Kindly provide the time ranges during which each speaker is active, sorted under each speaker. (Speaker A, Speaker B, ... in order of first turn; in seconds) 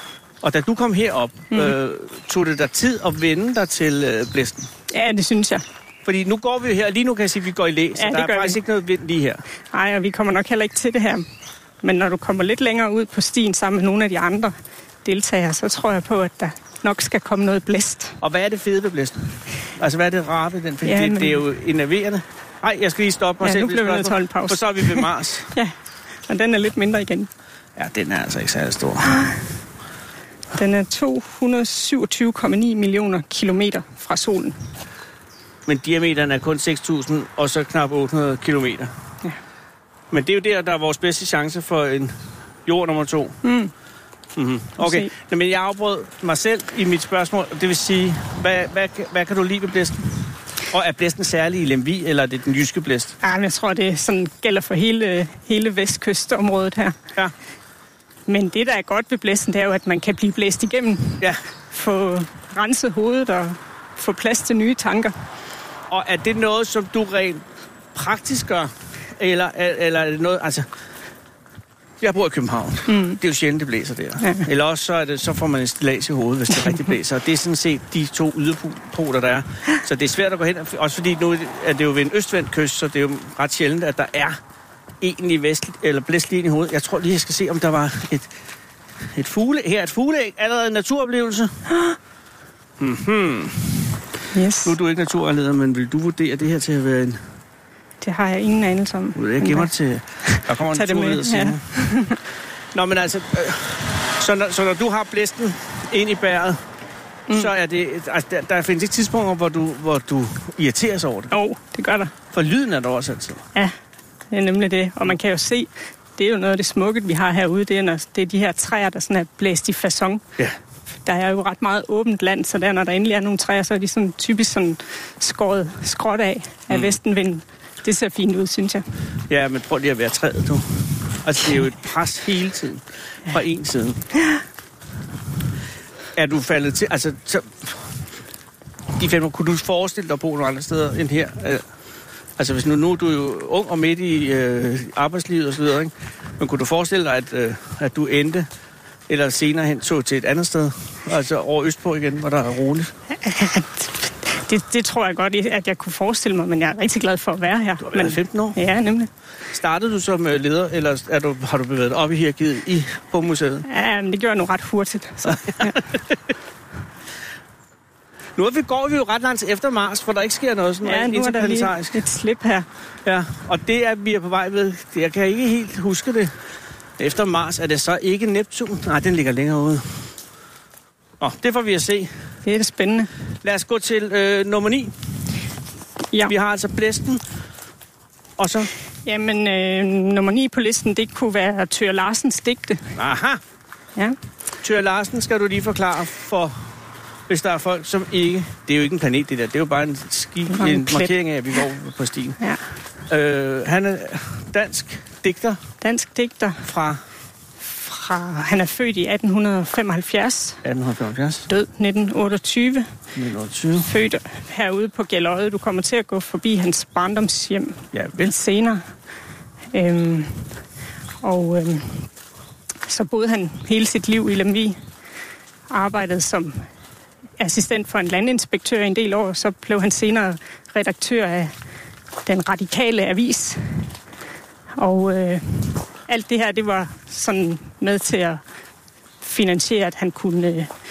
Speaker A: 0.4-4.7, 6.0-9.4, 18.2-19.2, 19.8-25.5, 27.8-29.2, 35.6-38.9, 40.1-42.1, 42.6-43.4, 44.4-50.1, 50.7-53.1, 65.9-67.4, 67.9-70.7, 72.0-84.4, 85.0-88.3, 89.1-91.6, 92.8-94.0, 94.6-97.2, 99.1-101.6, 102.7-106.6, 107.3-111.3, 112.3-113.4, 129.3-134.0, 136.2-137.8, 139.0-141.6, 142.4-148.5, 149.1-152.9, 157.8-158.6, 159.5-163.7, 165.3-166.1, 168.4-172.0, 173.1-176.3, 177.0-180.0, 181.2-182.1, 183.4-184.9, 186.2-187.2, 188.4-188.7, 192.9-193.4, 194.6-196.6, 197.3-202.4, 203.1-205.6, 206.7-207.0, 210.6-211.5, 213.2-213.9, 217.9-218.3
Speaker B: 4.9-5.6, 8.0-8.6, 9.7-11.2, 11.8-14.5, 15.0-18.2, 20.8-21.4, 23.4-25.7, 26.3-27.3, 30.5-34.6, 43.4-43.7, 44.8-45.1, 53.2-57.0, 58.3-65.1, 72.9-73.2, 74.2-74.5, 94.3-94.7, 98.0-99.7, 100.2-102.2, 111.3-112.1, 114.3-120.2, 121.0-128.8, 153.2-159.1, 163.7-165.9, 170.8-172.7, 182.4-183.1, 189.1-192.9, 200.5-201.1, 205.8-206.7, 207.6-210.6, 211.5-212.9, 213.8-218.8, 219.7-220.6, 221.2-222.1, 222.8-224.8, 225.7-226.7, 227.4-231.5, 232.2-233.9, 234.8-238.4, 239.2-240.7